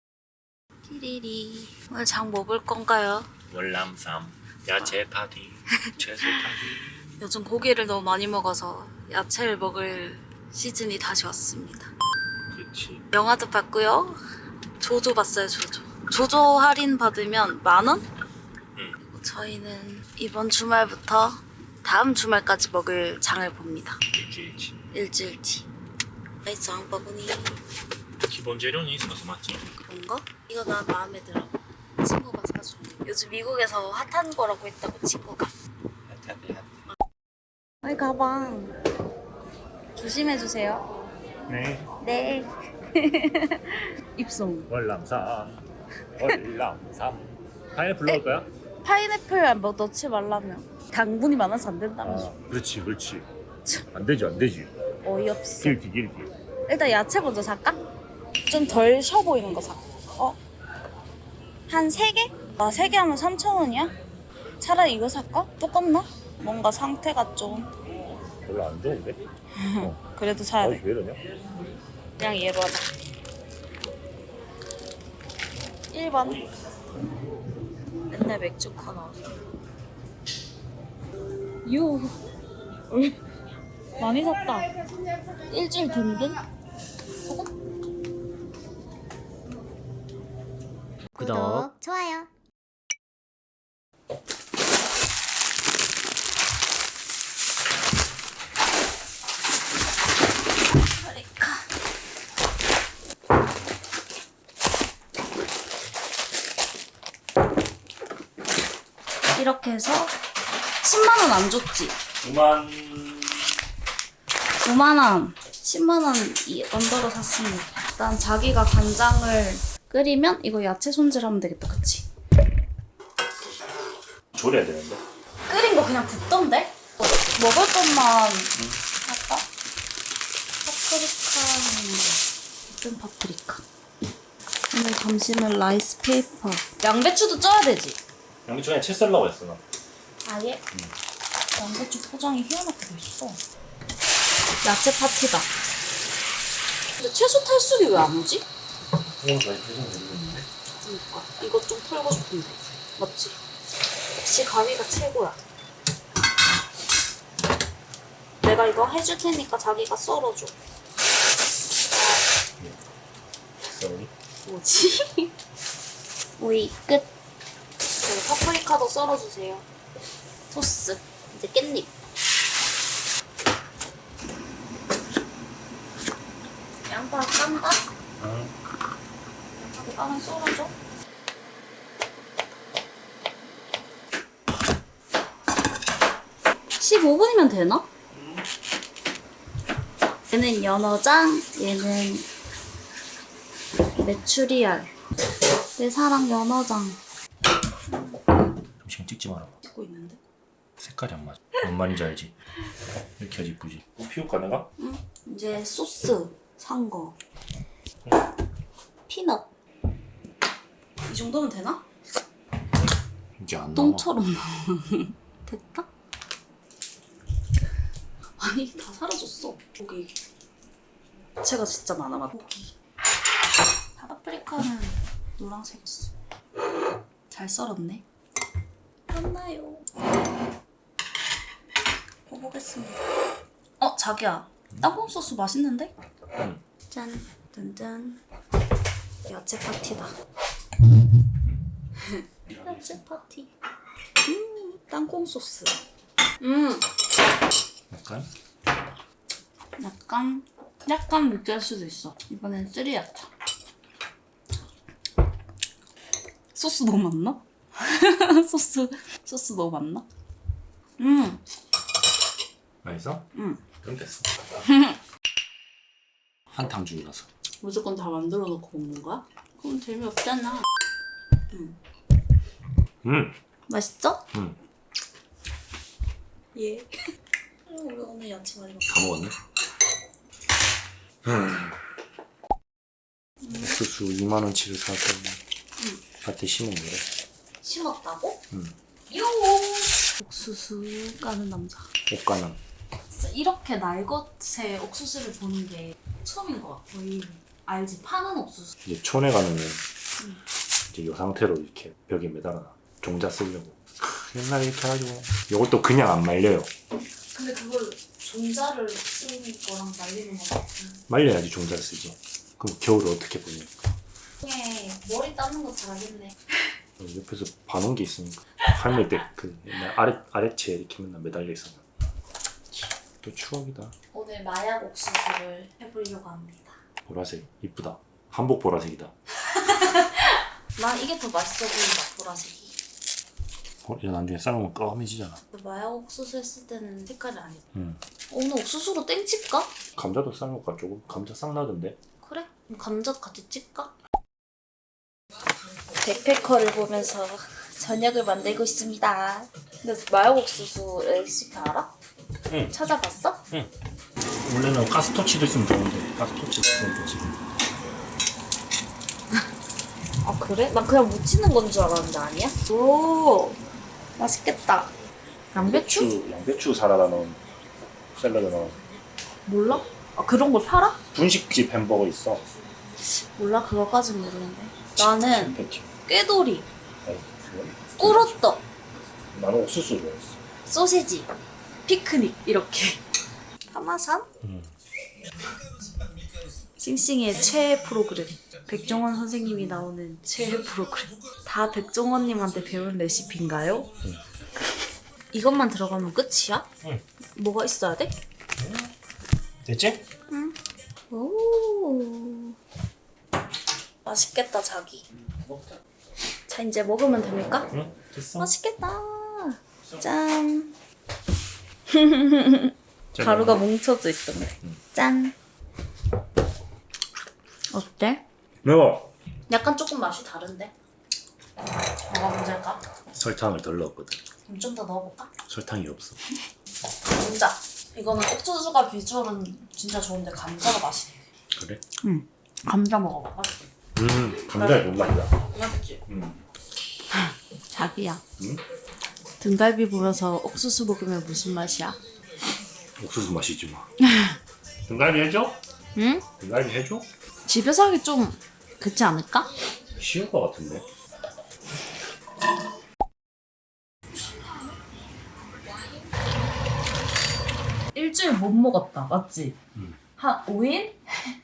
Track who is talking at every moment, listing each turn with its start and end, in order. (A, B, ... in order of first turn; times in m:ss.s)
0:00.8-0:03.3 A
0:03.5-0:06.8 B
0:05.8-0:06.4 A
0:07.2-0:11.9 A
0:12.5-0:13.0 B
0:13.1-0:14.2 A
0:14.8-0:18.1 A
0:19.1-0:24.0 A
0:24.1-0:24.8 B
0:24.9-0:25.7 A
0:26.4-0:27.6 A
0:28.2-0:29.7 B
0:29.7-0:35.5 A
0:36.1-0:36.6 B
0:37.8-0:38.8 A
0:40.0-0:40.9 A
0:41.5-0:41.9 B
0:42.0-0:44.7 A
0:44.7-0:45.6 B
0:46.2-0:48.5 B
0:48.8-0:52.3 A
0:52.0-0:53.3 B
0:53.9-0:54.7 B
0:55.0-0:55.8 A
0:55.6-0:56.3 B
0:56.7-0:57.8 A
0:58.5-1:00.4 A
1:01.7-1:03.9 A
1:04.6-1:07.7 A
1:08.4-1:09.2 B
1:09.6-1:10.8 A
1:10.6-1:11.2 B
1:12.2-1:12.9 A
1:15.9-1:16.5 A
1:18.1-1:19.3 A
1:21.6-1:22.2 A
1:22.9-1:23.2 A
1:24.0-1:24.7 A
1:25.5-1:26.4 A
1:31.2-1:32.2 A
1:41.0-1:41.7 A
1:49.3-1:50.1 A
1:50.8-1:52.0 A
1:52.2-1:53.4 B
1:54.6-2:02.0 A
2:04.3-2:05.0 B
2:05.5-2:08.5 A
2:08.6-2:08.8 B
2:09.0-2:09.4 A
2:10.6-2:13.6 A
2:14.7-2:18.0 A
2:18.4-2:19.6 B
2:20.2-2:20.6 A
2:21.5-2:23.4 A
2:24.6-2:25.5 A
2:27.0-2:28.4 A
2:29.2-2:30.5 B
2:30.7-2:33.4 A
2:34.2-2:35.4 A
2:38.4-2:40.5 A
2:41.9-2:42.2 A
2:43.6-2:44.1 B
2:44.4-2:45.3 A
2:46.4-2:47.1 A
2:48.0-2:49.6 A
2:50.5-2:51.9 A
2:56.8-2:57.8 A
2:58.2-2:58.5 B
2:59.6-3:00.7 A
3:06.8-3:07.9 A
3:10.3-3:12.3 A
3:14.0-3:14.9 A
3:15.8-3:17.0 A
3:17.9-3:18.2 A
3:18.8-3:19.5 B
3:19.6-3:20.2 A
3:20.8-3:22.3 B
3:23.2-3:24.7 B
3:24.8-3:27.2 A
3:29.1-3:29.5 A
3:31.0-3:31.8 A
3:33.4-3:34.1 B
3:33.7-3:35.9 A
3:38.4-3:40.2 A
3:41.4-3:42.7 A
3:44.0-3:46.1 A
3:47.3-3:48.0 A
3:49.1-3:49.9 A
3:52.3-3:53.1 A
3:53.8-3:55.9 A
3:56.9-3:58.2 A
3:59.2-4:00.1 A
4:02.0-4:03.5 A
4:02.5-4:03.0 B
4:04.2-4:05.8 A
4:06.4-4:06.8 A
4:07.9-4:08.3 B
4:09.8-4:13.3 A
4:16.5-4:20.0 A
4:21.0-4:21.4 A
4:22.8-4:23.3 B
4:23.3-4:23.6 A
4:23.8-4:24.3 B
4:24.6-4:25.0 A
4:26.5-4:27.3 B
4:27.6-4:30.6 A
4:33.0-4:33.4 B
4:33.7-4:34.2 A
4:34.3-4:34.6 B
4:36.5-4:36.9 A
4:37.7-4:38.8 A
4:38.8-4:39.3 B
4:41.2-4:41.7 B
4:43.4-4:43.7 A
4:43.5-4:45.4 B
4:46.2-4:47.1 B
4:47.6-4:48.4 A
4:48.5-4:48.8 B
4:49.1-4:51.9 A
4:52.1-4:52.6 B
4:53.1-4:58.7 A
4:58.8-4:59.8 B
5:00.9-5:06.7 B
5:07.3-5:11.0 A
5:11.1-5:13.7 B
5:14.4-5:16.4 A
5:17.0-5:21.8 B
5:23.2-5:23.9 B
5:24.1-5:26.8 A
5:27.0-5:29.1 B
5:29.5-5:32.8 A
5:33.8-5:35.4 B
5:35.5-5:37.6 A
5:37.7-5:38.0 B
5:38.3-5:39.7 A
5:40.0-5:42.0 B
5:42.2-5:43.9 A
5:46.0-5:51.9 A
5:52.5-5:52.7 B
5:52.7-5:53.4 A
5:54.4-5:57.4 B
6:00.2-6:03.6 A
6:04.2-6:04.9 A
6:05.5-6:06.1 A
6:05.6-6:07.4 B
6:08.1-6:08.8 B
6:09.4-6:11.0 A
6:11.1-6:12.5 B
6:13.0-6:16.7 A
6:15.0-6:15.9 B
6:17.0-6:18.4 B
6:18.0-6:18.6 A
6:19.3-6:20.4 B
6:20.6-6:21.3 A
6:21.8-6:23.0 A
6:23.7-6:24.3 A
6:24.4-6:24.7 B
6:26.8-6:33.9 A
6:35.3-6:36.7 A
6:37.4-6:38.1 A
6:38.6-6:38.9 B
6:39.6-6:40.0 B
6:40.3-6:40.6 A
6:41.1-6:42.5 A
6:44.0-6:45.0 A
6:45.3-6:45.8 B
6:46.5-6:47.7 A
6:47.7-6:48.5 B
6:48.4-6:50.7 A
6:51.9-6:55.3 A
6:53.1-6:53.6 B
6:57.7-6:58.2 A
6:58.6-6:59.1 B
6:59.5-7:00.7 A
7:02.1-7:02.8 A
7:03.1-7:04.2 B
7:04.5-7:05.3 A
7:05.5-7:06.2 B
7:07.1-7:11.2 A
7:11.5-7:11.8 B
7:12.0-7:13.6 A
7:14.0-7:15.3 B
7:14.4-7:14.9 A
7:15.4-7:16.0 A
7:16.1-7:16.4 B
7:17.1-7:18.2 A
7:18.4-7:18.6 B
7:19.4-7:22.0 A
7:23.0-7:23.8 B
7:24.0-7:24.3 A
7:24.8-7:25.6 B
7:25.9-7:26.2 A
7:26.4-7:27.1 B
7:27.4-7:29.5 A
7:30.0-7:30.8 B
7:37.9-7:39.6 A
7:40.2-7:41.3 A